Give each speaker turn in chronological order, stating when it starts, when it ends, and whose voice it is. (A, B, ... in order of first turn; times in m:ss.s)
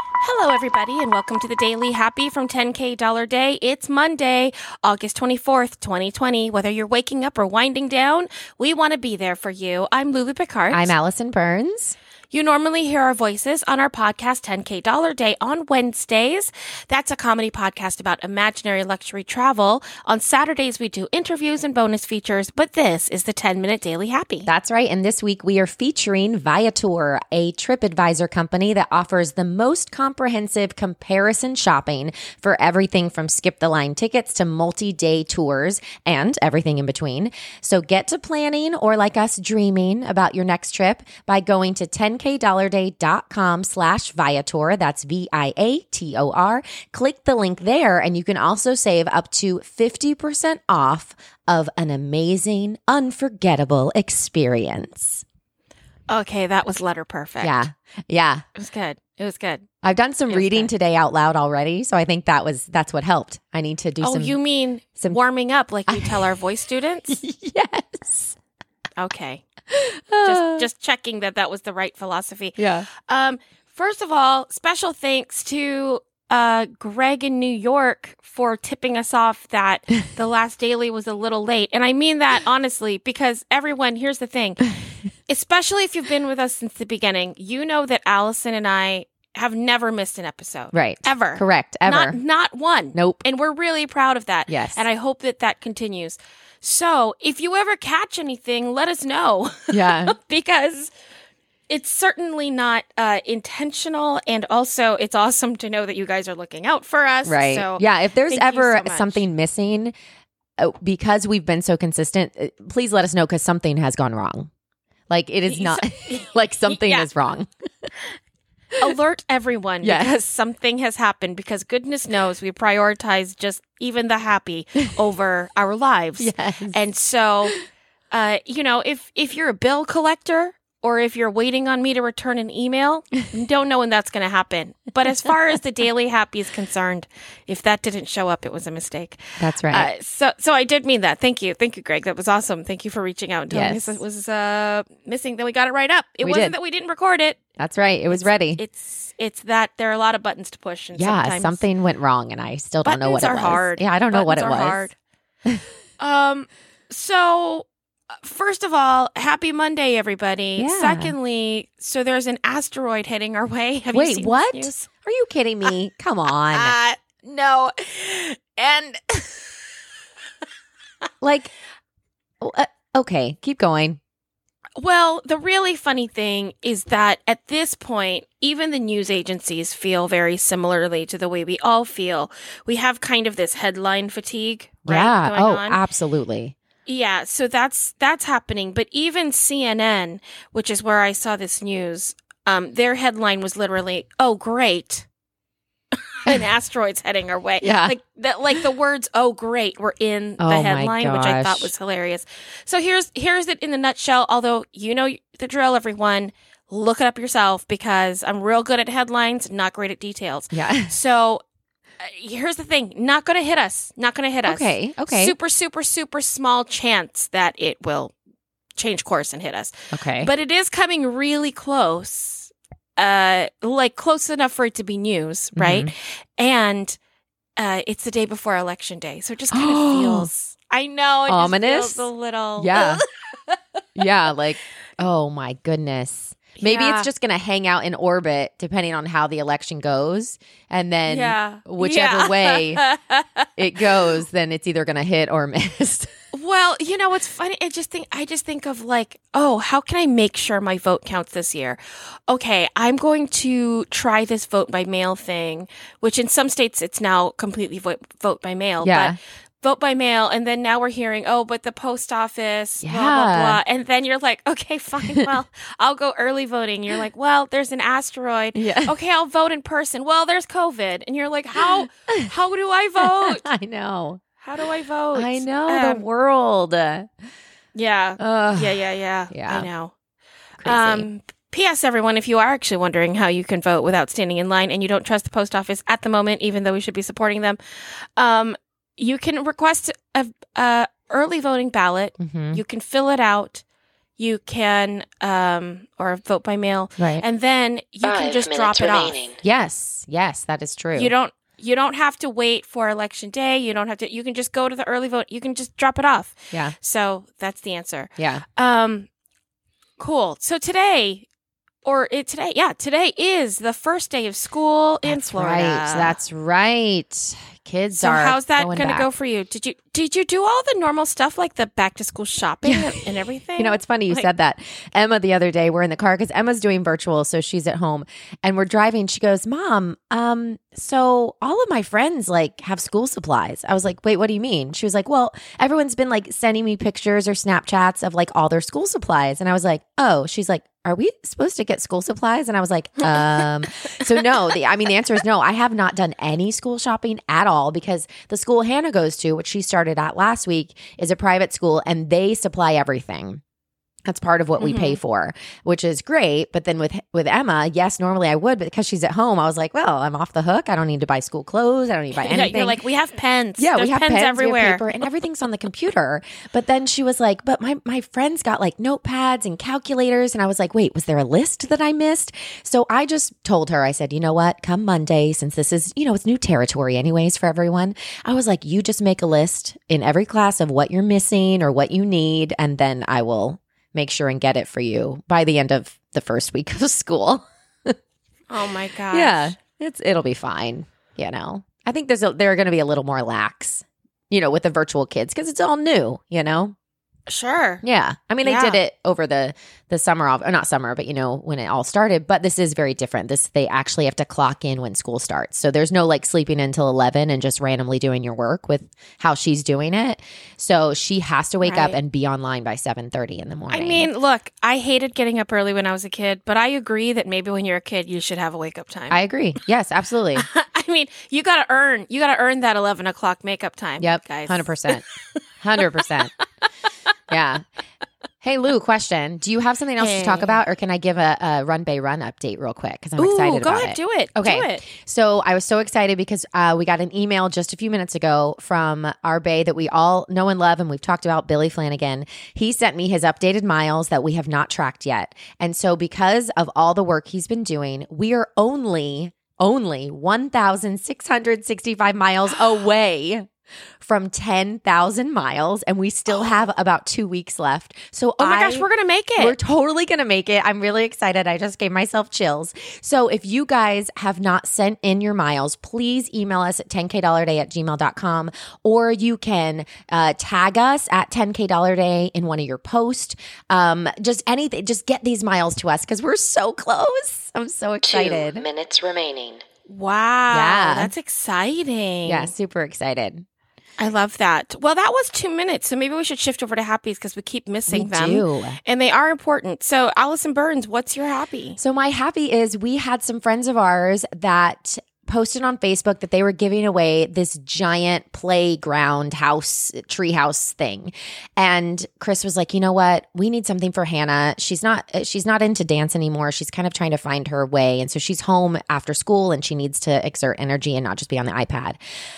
0:00.2-0:11.0 A
0:10.7-0:12.0 B
0:12.3-0:24.5 A
0:24.4-0:55.2 B
0:56.1-0:57.7 A
0:57.4-0:58.4 B
0:58.6-0:59.7 A
0:59.8-1:04.4 B
1:00.3-1:00.7 A
1:04.0-1:07.2 A
1:05.9-1:06.3 B
1:07.1-1:08.4 B
1:09.0-1:09.4 A
1:09.7-1:10.7 B
1:10.2-1:24.8 A
1:12.6-1:12.9 B
1:25.3-1:40.9 A
1:30.7-1:32.2 B
1:32.9-1:33.2 B
1:34.5-1:34.8 B
1:39.7-1:40.2 B
1:41.7-1:49.2 A
1:47.2-1:49.9 B
1:50.6-1:54.5 B
1:55.1-1:57.5 B
1:55.5-1:57.1 A
1:58.8-2:07.6 A
1:59.8-2:00.1 B
2:06.2-2:06.8 B
2:08.1-2:27.4 A
2:19.4-2:19.9 B
2:23.5-2:24.0 B
2:26.2-2:26.6 B
2:27.6-2:28.6 B
2:28.1-2:31.7 A
2:31.0-2:34.9 B
2:32.8-2:35.0 A
2:36.0-2:37.7 A
2:38.2-2:44.9 A
2:40.6-2:41.2 B
2:43.9-2:46.8 B
2:46.5-2:49.5 A
2:51.2-2:51.5 B
2:52.4-2:54.0 B
2:54.8-3:05.8 A
3:04.8-3:06.6 B
3:06.9-3:15.1 A
3:16.1-3:31.4 A
3:17.6-3:18.0 B
3:20.4-3:21.7 B
3:30.5-3:31.0 B
3:32.0-3:38.1 A
3:34.5-3:35.4 B
3:38.8-3:47.0 A
3:39.9-3:40.3 B
3:45.6-3:45.9 B
3:47.6-3:53.6 A
3:49.5-3:50.3 B
3:51.3-3:53.0 B
3:54.0-4:02.8 B
3:56.6-3:57.1 A
4:01.1-4:03.5 A
4:03.6-4:06.1 B
4:06.3-4:33.5 A
4:18.8-4:19.2 B
4:22.8-4:23.6 B
4:28.6-4:29.0 B
4:33.0-4:34.2 B
4:34.4-4:36.0 A
4:35.1-4:37.1 B
4:37.8-4:39.9 A
4:38.2-4:39.7 B
4:40.6-4:41.1 B
4:40.6-4:47.6 A
4:48.2-4:53.6 A
4:52.2-4:52.6 B
4:54.2-4:59.2 A
4:57.0-4:57.2 B
4:58.0-4:59.4 C
4:59.4-5:01.1 B
5:00.9-5:09.1 A
5:08.2-5:08.4 B
5:10.0-5:11.3 A
5:11.8-5:16.2 A
5:15.0-5:19.1 B
5:18.0-5:24.3 A
5:22.6-5:23.0 B
5:23.6-5:53.4 B
5:43.0-5:43.5 A
5:44.1-5:44.4 A
5:54.1-6:02.8 B
5:54.6-5:55.0 A
6:02.2-6:04.9 A
6:03.6-6:28.0 B
6:28.5-6:29.6 A
6:29.1-6:36.7 B
6:37.3-6:37.8 A
6:37.8-6:54.1 B
6:38.4-6:38.8 A
6:51.6-6:52.0 A
6:53.7-6:59.2 A
6:59.1-7:00.5 B
7:00.4-7:05.1 A
7:04.0-7:05.0 B
7:05.6-7:06.3 B
7:05.8-7:06.1 A
7:07.3-7:07.6 B
7:08.4-7:33.5 B
7:10.0-7:10.6 A
7:13.2-7:14.8 A
7:34.0-7:58.7 B
7:38.4-7:39.6 A
7:58.0-7:59.6 C
7:59.9-8:02.5 A
8:00.5-8:01.1 B
8:02.3-8:03.4 B
8:04.0-8:11.8 A
8:07.9-8:08.8 B
8:11.8-8:32.0 B